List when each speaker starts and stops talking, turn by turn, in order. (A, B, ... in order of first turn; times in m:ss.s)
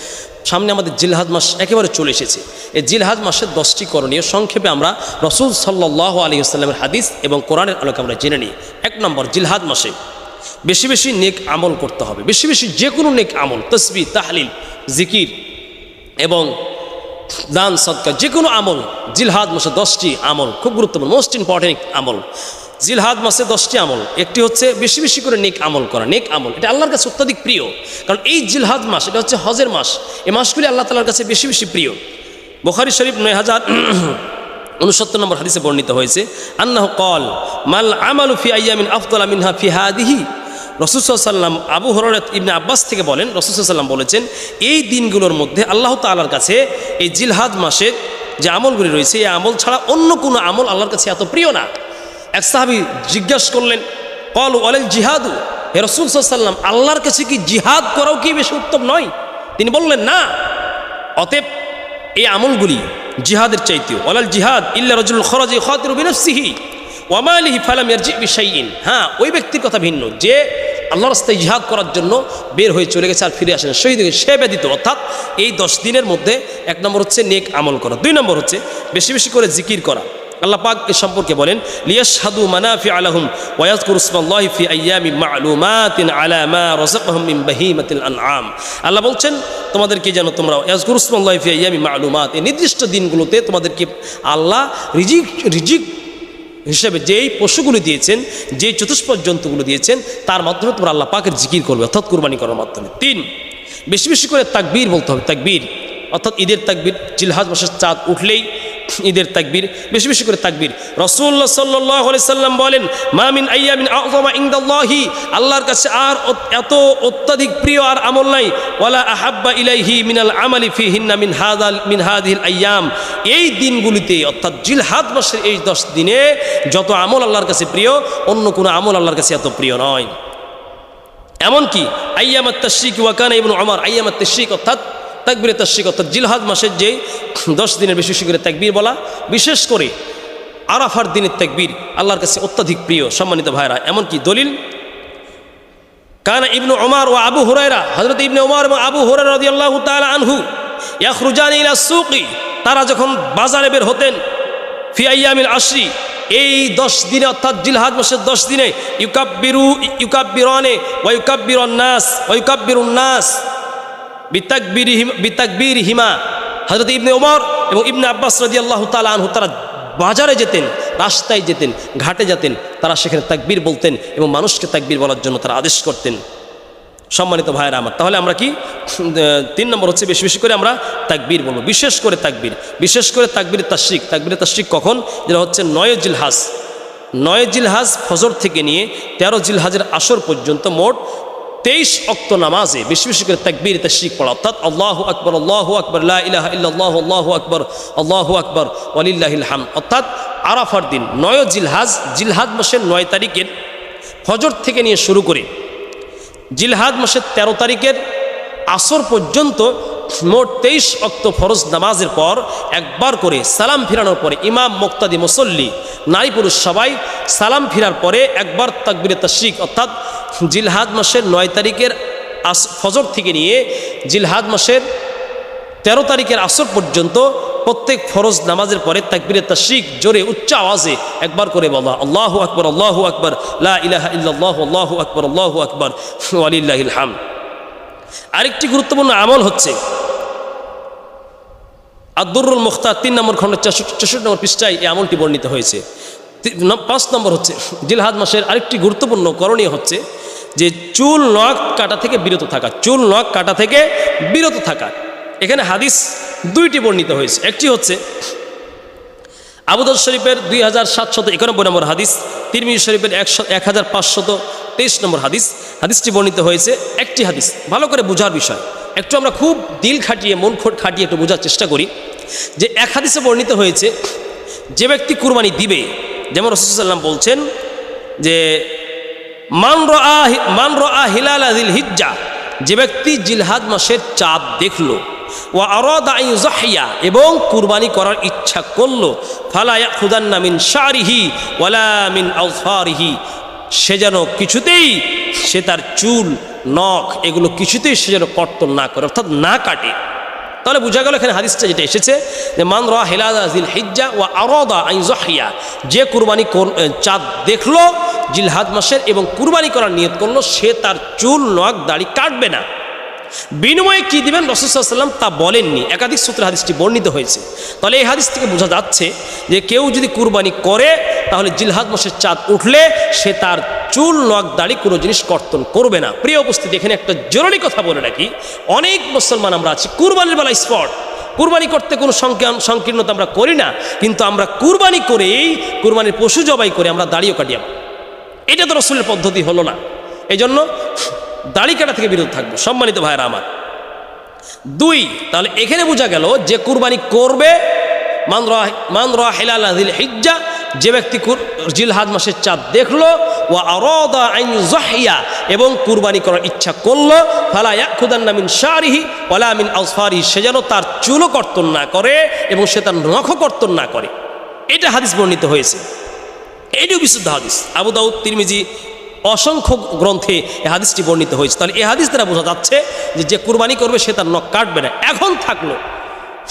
0:00.5-0:09.9 A
0:10.6-0:15.3 A
0:16.2-0:16.5 A
0:17.5-0:22.2 A
0:22.8-0:32.0 A
0:32.6-0:34.2 A
0:34.8-0:40.2 A
0:40.8-0:51.7 A
0:52.4-1:00.3 A
1:01.2-1:01.4 A
1:02.2-1:06.6 A
1:07.1-1:35.9 A
1:36.7-1:43.2 A
1:43.9-1:48.4 A
1:49.0-2:10.1 A
2:11.4-2:19.9 A
2:20.7-2:24.5 A
2:26.2-2:30.4 A
2:31.0-2:34.2 A
2:34.9-2:43.4 A
2:44.3-2:56.2 A
2:57.1-3:06.5 A
3:07.2-3:11.0 A
3:11.6-3:23.5 A
3:24.2-3:25.5 A
3:26.6-3:28.0 A
3:28.7-3:39.9 A
3:40.4-3:41.9 A
3:42.5-3:44.8 A
3:45.8-3:57.2 A
3:58.4-3:59.7 A
4:02.2-4:05.8 A
4:06.4-4:10.0 A
4:10.6-4:18.0 A
4:19.7-4:31.9 A
4:32.6-4:33.9 A
4:34.7-4:37.4 A
4:38.2-4:38.7 A
4:39.6-4:45.0 A
4:45.5-4:53.2 A
4:53.8-4:59.9 A
5:00.6-5:12.6 A
5:13.6-5:37.7 A
5:38.5-5:39.8 A
5:40.3-5:43.4 A
5:44.7-5:47.6 A
5:48.3-6:04.1 A
6:04.7-6:05.8 A
6:06.8-6:08.6 A
6:09.3-6:15.8 A